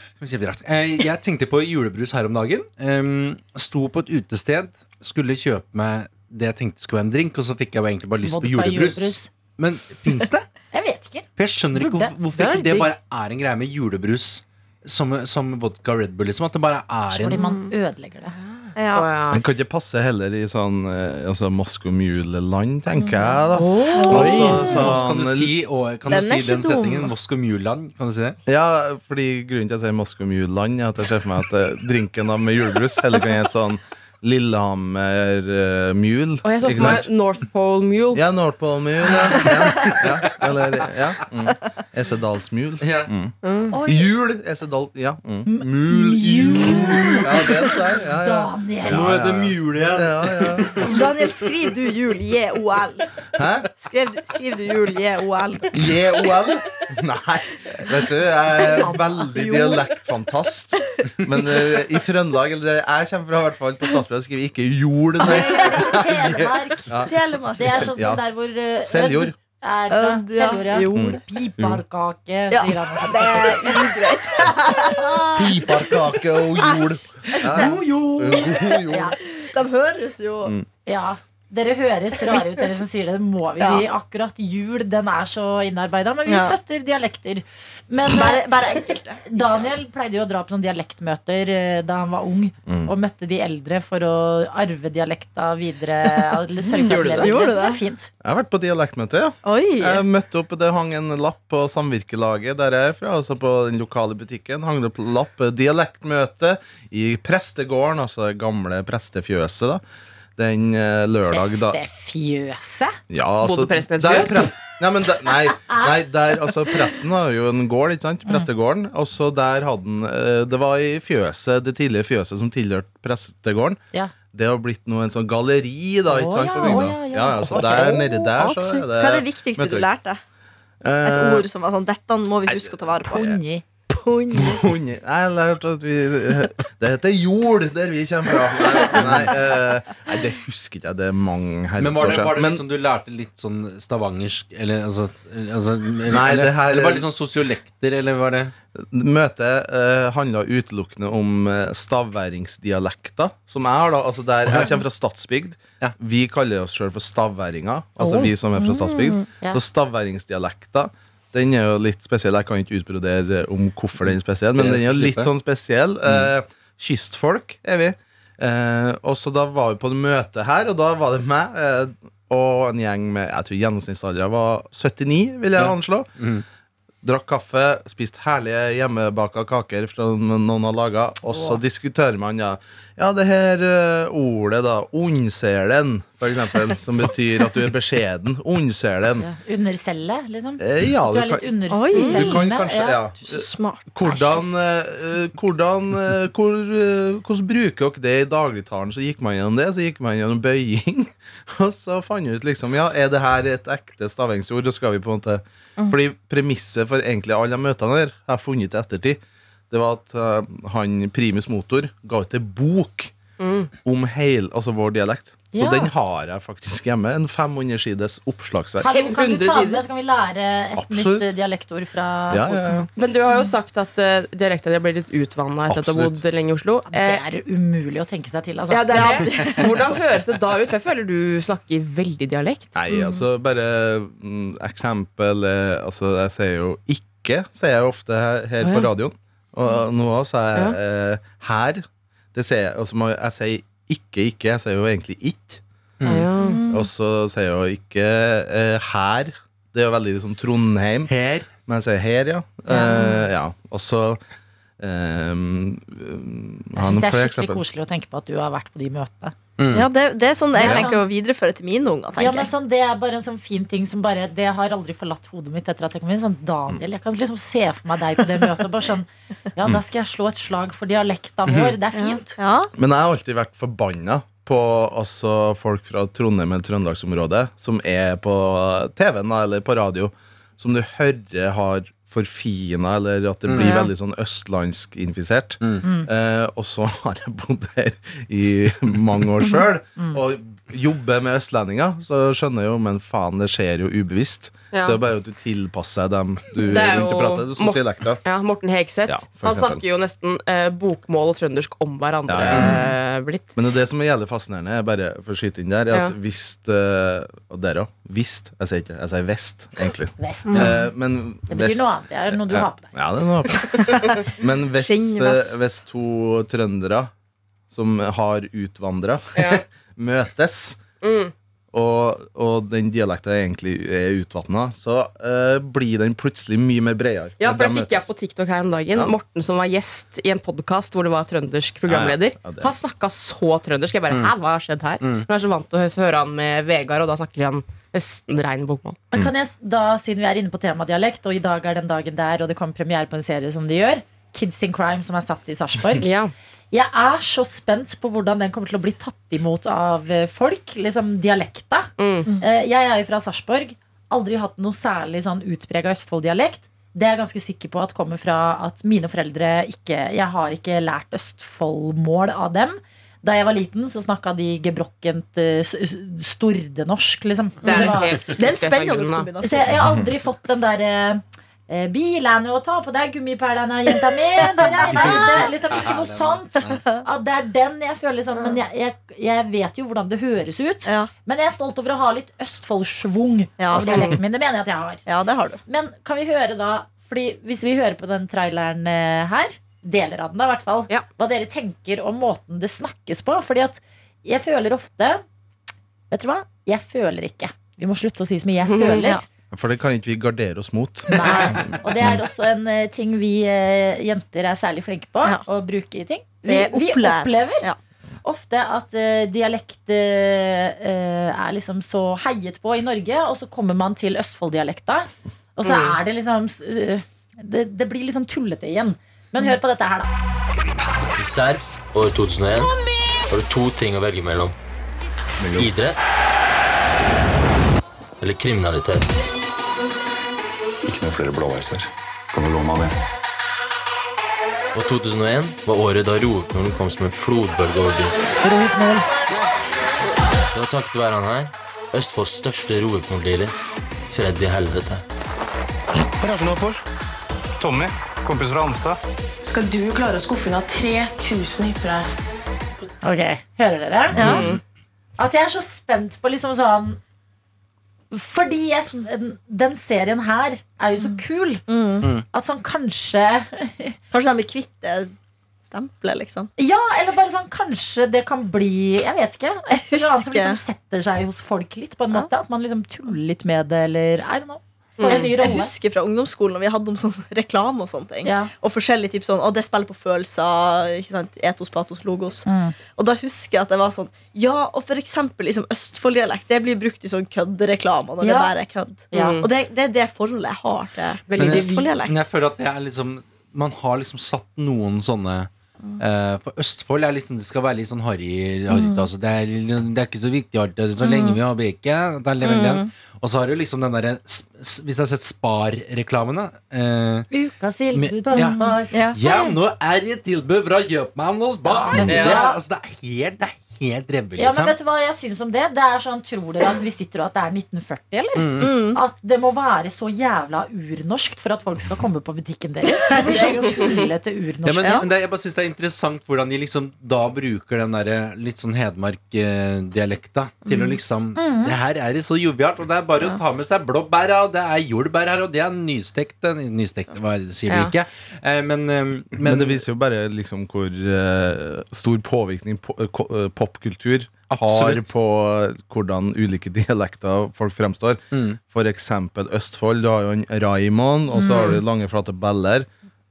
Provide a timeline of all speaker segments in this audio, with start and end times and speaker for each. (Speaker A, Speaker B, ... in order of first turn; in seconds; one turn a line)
Speaker A: 0.2-10.5
Speaker B: 8.2-9.3
Speaker B: 10.7-12.9
Speaker A: 11.4-17.4
Speaker C: 17.2-17.7
Speaker B: 17.3-18.3
Speaker D: 18.4-19.4
Speaker C: 18.8-19.1
Speaker E: 19.3-25.5
Speaker C: 23.0-23.4
Speaker D: 23.5-24.5
Speaker B: 23.9-24.5
Speaker C: 23.9-24.9
Speaker A: 24.1-28.4
Speaker C: 26.1-27.1
Speaker E: 28.5-37.1
Speaker D: 36.4-38.2
Speaker E: 38.1-51.0
Speaker A: 42.8-43.1
Speaker D: 43.4-43.7
Speaker C: 43.7-44.1
Speaker B: 45.5-47.5
Speaker A: 46.8-47.1
Speaker B: 48.2-49.1
Speaker A: 48.9-51.1
Speaker C: 50.9-53.1
Speaker E: 53.4-53.7
Speaker C: 53.7-56.2
Speaker E: 55.7-68.2
Speaker B: 58.7-59.3
Speaker C: 58.8-59.9
Speaker C: 65.2-66.1
Speaker B: 65.2-67.0
Speaker C: 67.0-67.9
Speaker B: 67.5-73.9
Speaker E: 68.8-69.4
Speaker C: 69.9-71.2
Speaker E: 70.9-71.8
Speaker C: 72.5-76.0
Speaker E: 75.3-79.2
Speaker C: 76.5-77.8
Speaker B: 77.4-79.2
Speaker C: 78.4-78.7
Speaker C: 79.2-80.5
Speaker B: 80.8-88.5
Speaker C: 82.2-82.8
Speaker C: 83.6-83.8
Speaker C: 86.3-86.5
Speaker C: 88.0-89.6
Speaker B: 89.2-98.1
Speaker E: 92.7-92.9
Speaker C: 96.7-97.8
Speaker D: 96.8-97.4
Speaker E: 98.2-109.8
Speaker C: 99.4-100.0
Speaker E: 110.4-111.8
Speaker B: 111.3-113.0
Speaker E: 113.1-123.8
Speaker D: 113.4-114.5
Speaker E: 124.3-129.9
Speaker B: 126.1-128.9
Speaker C: 127.6-127.8
Speaker C: 129.0-130.2
Speaker E: 130.8-131.5
Speaker C: 131.0-133.3
Speaker E: 132.5-133.4
Speaker B: 133.0-133.6
Speaker C: 133.9-134.7
Speaker E: 134.3-142.6
Speaker A: 141.8-148.5
Speaker E: 146.1-147.1
Speaker E: 148.7-176.1
Speaker B: 158.0-158.2
Speaker C: 158.7-159.2
Speaker A: 164.6-165.3
Speaker A: 175.6-176.4
Speaker E: 177.0-189.3
Speaker B: 181.3-181.6
Speaker B: 189.2-193.0
Speaker E: 190.6-209.2
Speaker C: 191.7-192.3
Speaker C: 193.2-194.2
Speaker E: 209.7-213.1
Speaker D: 213.4-213.7
Speaker E: 213.8-218.9
Speaker B: 215.5-215.9
Speaker B: 218.8-222.9
Speaker D: 218.9-219.8
Speaker E: 220.7-221.3
Speaker E: 222.3-222.9
Speaker D: 223.0-227.2
Speaker E: 225.7-226.2
Speaker B: 226.9-229.2
Speaker D: 228.7-232.7
Speaker C: 228.9-229.8
Speaker E: 232.7-245.6
Speaker C: 232.9-233.2
Speaker A: 246.0-246.3
Speaker D: 246.0-246.6
Speaker C: 246.4-246.9
Speaker E: 246.7-254.2
Speaker A: 251.1-251.5
Speaker B: 252.7-253.2
Speaker E: 254.8-257.6
Speaker B: 256.8-259.3
Speaker A: 259.6-259.9
Speaker C: 259.7-262.5
Speaker B: 260.5-261.0
Speaker B: 262.2-272.3
Speaker C: 271.9-272.7
Speaker E: 272.8-298.2
Speaker A: 283.5-283.8
Speaker D: 294.7-295.0
Speaker D: 296.6-303.5
Speaker E: 299.1-299.8
Speaker E: 302.3-302.7
Speaker A: 302.5-302.7
Speaker E: 303.6-317.1
Speaker B: 310.2-310.9
Speaker B: 311.5-312.9
Speaker C: 313.7-314.2
Speaker C: 314.8-315.6
Speaker E: 317.7-320.8
Speaker D: 319.4-319.6
Speaker D: 321.0-321.3
Speaker E: 321.7-328.1
Speaker D: 327.4-339.0
Speaker E: 331.9-332.7
Speaker A: 335.0-335.3
Speaker B: 339.1-346.1
Speaker D: 346.0-346.3
Speaker B: 346.7-368.2
Speaker D: 352.0-352.3
Speaker C: 367.6-369.9
Speaker D: 367.6-369.3
Speaker B: 369.4-385.0
Speaker C: 374.4-375.4
Speaker A: 374.7-376.8
Speaker C: 376.8-377.0
Speaker C: 380.8-381.1
Speaker C: 383.6-384.2
Speaker D: 383.8-384.1
Speaker C: 385.1-385.6
Speaker B: 385.7-395.2
Speaker B: 396.1-399.2
Speaker D: 398.6-399.1
Speaker E: 399.5-402.2
Speaker B: 401.1-407.7
Speaker C: 401.2-401.6
Speaker C: 406.4-407.8
Speaker B: 408.2-420.1
Speaker D: 415.6-416.0
Speaker F: 421.2-422.7
Speaker F: 423.3-424.5
Speaker G: 425.4-425.7
Speaker F: 425.6-426.1
Speaker F: 428.2-429.1
Speaker G: 430.8-433.0
Speaker F: 434.7-438.1
Speaker B: 438.4-439.1
Speaker F: 440.5-443.5
Speaker F: 444.1-445.0
Speaker H: 446.2-446.8
Speaker H: 447.6-449.0
Speaker I: 449.4-452.1
Speaker B: 453.0-454.2
Speaker C: 454.1-454.5
Speaker D: 454.2-454.6
Speaker B: 455.2-457.0
Speaker B: 458.1-461.6
Speaker C: 461.0-462.1
Speaker B: 462.3-463.9
Speaker C: 464.1-465.1
Speaker C: 465.6-466.5
Speaker B: 466.6-475.7
Speaker C: 469.7-470.6
Speaker D: 475.0-475.3
Speaker C: 475.0-492.2
Speaker B: 478.2-478.5
Speaker B: 482.4-482.7
Speaker B: 488.2-488.5
Speaker B: 489.1-489.4
Speaker D: 489.1-489.5
Speaker D: 491.3-491.9
Speaker A: 491.4-507.3
Speaker C: 498.7-499.1
Speaker C: 501.0-501.4
Speaker C: 502.4-502.9
Speaker B: 507.3-509.6
Speaker A: 507.9-514.8
Speaker C: 508.4-509.2
Speaker B: 511.6-512.6
Speaker D: 512.1-512.5
Speaker B: 514.4-525.0
Speaker A: 518.4-518.8
Speaker C: 518.6-519.0
Speaker C: 523.0-524.1
Speaker A: 524.6-539.8
Speaker C: 524.8-525.1
Speaker C: 530.6-531.0
Speaker B: 531.4-531.8
Speaker D: 537.7-537.9
Speaker E: 539.4-552.9
Speaker A: 544.5-545.0
Speaker A: 548.3-548.6
Speaker B: 551.3-551.8